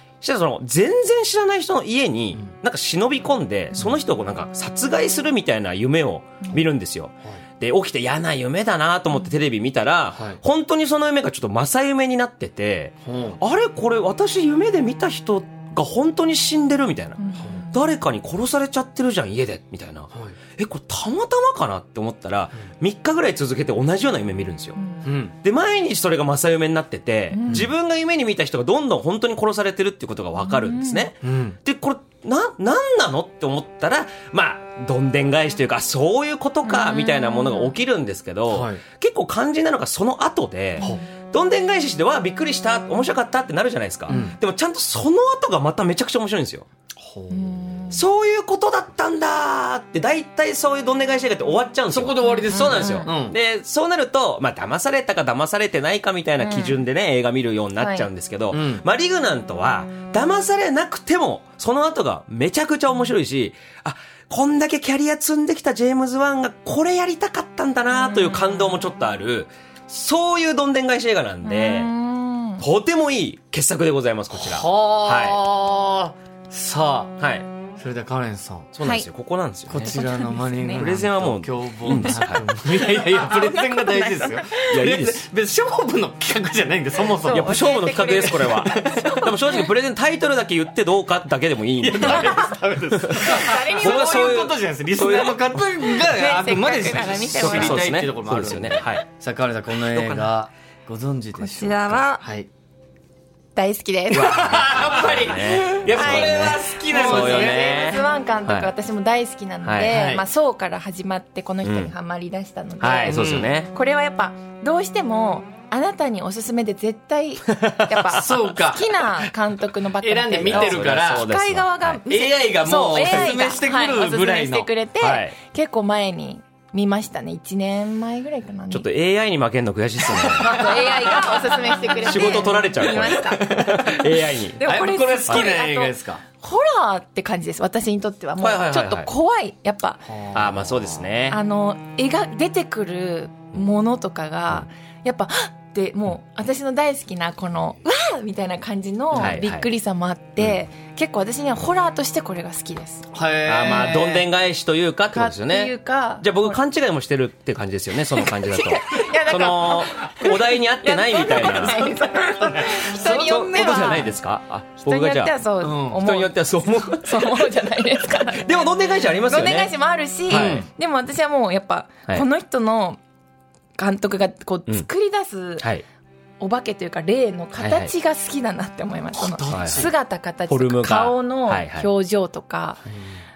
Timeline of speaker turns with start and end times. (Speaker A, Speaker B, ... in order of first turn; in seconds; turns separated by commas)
Speaker A: 0.2-24.8, Speaker B: 13.1-13.4, Speaker C: 17.2-17.8, Speaker C: 24.8-25.0, Speaker B: 25.0-25.3, Speaker A: 25.4-46.7, Speaker C: 27.3-27.6, Speaker C: 30.4-31.1, Speaker B: 31.2-31.6, Speaker C: 36.6-37.7, Speaker B: 38.5-38.8, Speaker C: 40.8-41.0, Speaker B: 44.1-44.4, Speaker B: 47.0-47.5, Speaker C: 47.3-48.0, Speaker A: 47.9-71.9, Speaker B: 51.9-53.4, Speaker C: 52.2-53.1, Speaker C: 56.4-56.8, Speaker C: 57.8-58.1, Speaker B: 58.5-58.8, Speaker C: 67.9-68.8, Speaker C: 71.4-72.6, Speaker A: 72.6-75.4, Speaker B: 74.3-77.2, Speaker A: 77.2-77.5, Speaker B: 77.8-78.7, Speaker A: 78.7-79.9, Speaker C: 78.8-79.1, Speaker B: 79.7-87.5, Speaker C: 79.8-80.9, Speaker A: 80.7-82.4, Speaker C: 81.9-82.2, Speaker C: 83.0-84.7, Speaker A: 84.7-85.2, Speaker C: 87.2-89.6, Speaker A: 87.3-92.5, Speaker B: 88.5-89.2, Speaker B: 91.8-102.5, Speaker C: 92.0-92.4, Speaker A: 93.0-95.6, Speaker C: 93.1-94.4, Speaker C: 95.8-97.9, Speaker A: 97.3-99.0, Speaker A: 99.9-100.3, Speaker C: 101.4-102.2, Speaker C: 103.5-104.7, Speaker B: 104.1-108.0, Speaker A: 104.1-108.7, Speaker C: 105.9-128.9, Speaker A: 109.6-109.9, Speaker B: 109.9-110.2, Speaker A: 111.6-111.9, Speaker A: 112.8-113.7, Speaker B: 113.1-113.5, Speaker A: 117.5-118.4, Speaker B: 118.1-119.0, Speaker B: 120.0-121.3, Speaker A: 120.4-122.0, Speaker B: 122.1-124.7, Speaker A: 125.0-125.3, Speaker A: 128.7-130.7, Speaker B: 130.1-131.0, Speaker C: 130.3-140.0, Speaker A: 132.0-134.6, Speaker B: 134.6-136.2, Speaker A: 138.4-139.1, Speaker B: 140.1-141.1, Speaker A: 140.3-141.4, Speaker C: 141.3-153.1, Speaker A: 149.1-149.7, Speaker B: 153.1-154.3, Speaker A: 153.5-162.0, Speaker C: 155.1-156.6, Speaker C: 158.1-164.1, Speaker B: 162.4-164.1, Speaker A: 163.0-165.3, Speaker C: 164.8-173.0, Speaker B: 165.6-166.0, Speaker A: 165.9-169.7, Speaker A: 170.3-170.7, Speaker B: 170.3-170.7, Speaker C: 173.8-175.7, Speaker A: 175.6-175.8, Speaker C: 176.4-182.8, Speaker A: 177.6-177.9, Speaker B: 179.1-179.9, Speaker A: 179.5-179.9, Speaker A: 180.5-181.9